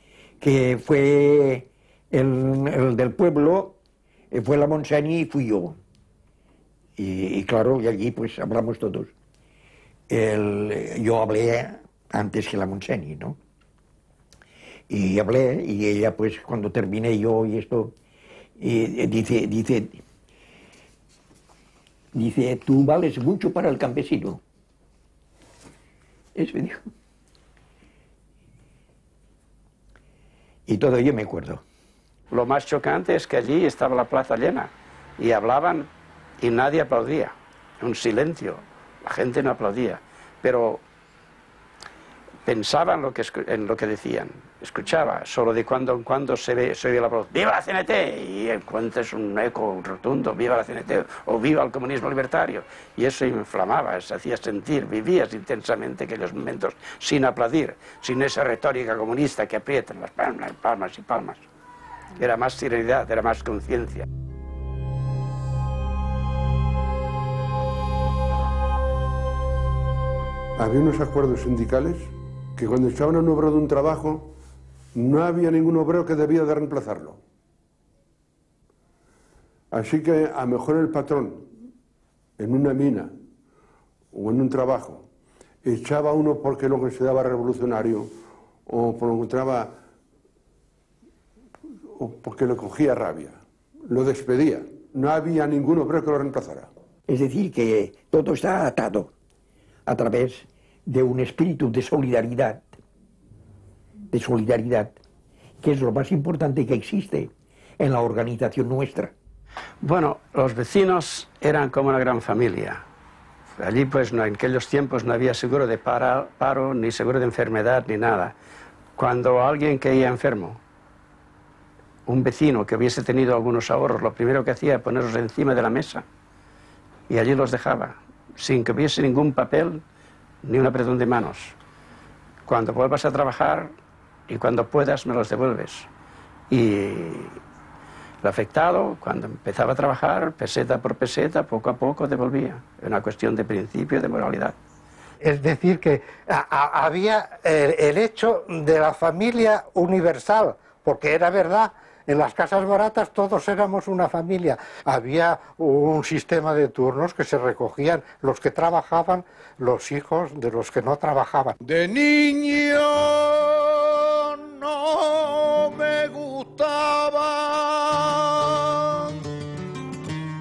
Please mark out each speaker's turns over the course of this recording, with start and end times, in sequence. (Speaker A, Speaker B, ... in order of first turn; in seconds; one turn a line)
Speaker A: 0.4-3.8
Speaker A: 4.3-5.7
Speaker A: 7.0-9.1
Speaker A: 10.1-13.4
Speaker A: 14.9-17.9
Speaker A: 18.6-20.0
Speaker A: 22.1-24.4
Speaker A: 26.4-26.9
Speaker A: 30.7-31.6
Speaker B: 32.3-35.9
Speaker B: 36.4-40.8
Speaker B: 42.5-61.4
Speaker B: 62.2-64.0
Speaker C: 70.6-74.3
Speaker C: 74.9-77.2
Speaker C: 79.7-81.4
Speaker C: 82.4-83.1
Speaker C: 84.1-85.0
Speaker C: 85.6-88.1
Speaker C: 88.7-89.7
Speaker C: 92.0-96.7
Speaker A: 97.1-99.1
Speaker A: 99.8-102.8
Speaker A: 104.1-104.9
Speaker A: 105.6-109.1
Speaker B: 109.8-112.8
Speaker B: 113.6-118.3
Speaker B: 119.0-120.6
Speaker B: 122.1-126.0
Speaker B: 127.1-129.8
Speaker B: 130.4-131.5
Speaker B: 132.5-133.7
Speaker B: 134.3-135.9
Speaker B: 136.5-137.4
Speaker B: 138.2-144.5
Speaker D: 145.2-161.6
Speaker E: 161.6-169.1